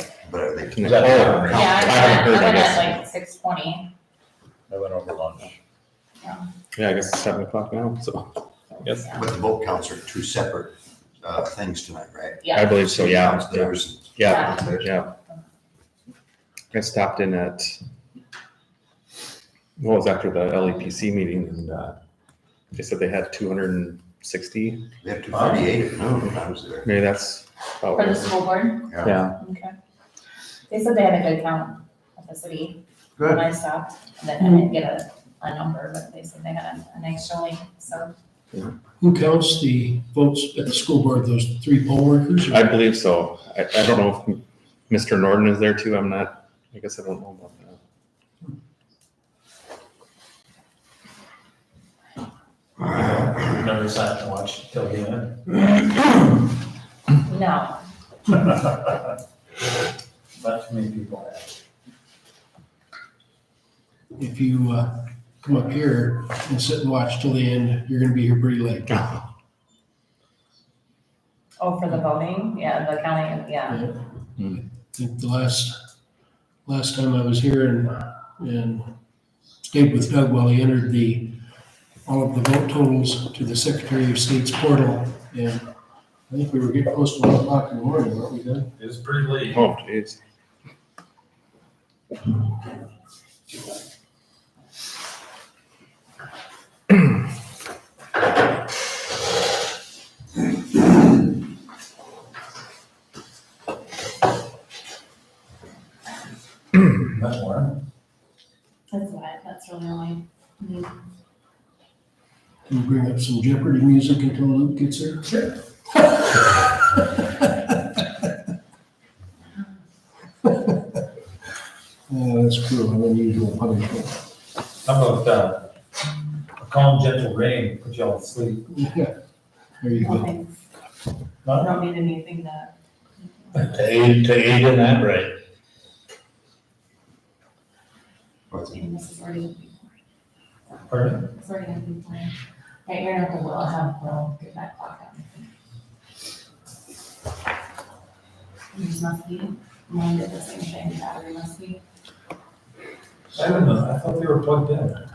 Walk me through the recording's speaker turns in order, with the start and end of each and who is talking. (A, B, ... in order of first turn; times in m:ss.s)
0:00.2-0:02.3 A
0:00.7-0:03.0 B
0:00.8-0:01.7 C
0:01.2-0:01.5 D
0:01.5-0:03.9 E
0:04.7-0:05.6 C
0:06.7-0:08.3 B
0:09.1-0:14.9 A
0:12.5-0:15.1 B
0:14.2-0:15.4 E
0:16.7-0:17.8 B
0:19.8-0:22.0 B
0:22.7-0:24.8 B
0:25.0-0:26.9 A
0:25.3-0:25.6 D
0:26.8-0:28.3 B
0:27.9-0:29.7 E
0:28.9-0:29.2 A
0:29.0-0:29.4 B
0:30.7-0:38.1 E
0:33.2-0:33.4 A
0:34.4-0:34.7 F
0:39.0-0:42.8 F
0:42.5-0:47.8 B
0:52.8-0:55.8 D
0:57.2-0:57.8 E
0:58.3-0:59.0 D
1:00.4-1:01.5 D
1:04.2-1:09.2 F
1:11.6-1:13.8 E
1:13.7-1:15.8 F
1:16.6-1:18.9 F
1:19.6-1:21.4 F
1:22.0-1:25.6 F
1:26.3-1:28.7 F
1:28.8-1:29.6 D
1:29.5-1:30.2 B
1:46.8-1:47.8 D
1:48.9-1:50.9 E
1:52.7-1:55.5 F
2:00.4-2:00.8 F
2:02.1-2:04.2 F
2:04.8-2:05.6 D
2:06.6-2:08.7 D
2:08.7-2:09.1 F
2:09.8-2:10.3 F
2:10.0-2:10.5 E
2:11.4-2:11.7 D
2:11.5-2:12.7 E
2:13.2-2:13.5 E
2:13.5-2:13.8 D
2:13.7-2:15.3 C
2:18.5-2:18.8 A
2:18.7-2:19.9 E
2:20.9-2:21.2 D
2:21.2-2:22.3 E
2:22.8-2:25.5 E
2:28.7-2:31.8 E
2:33.3-2:35.0 D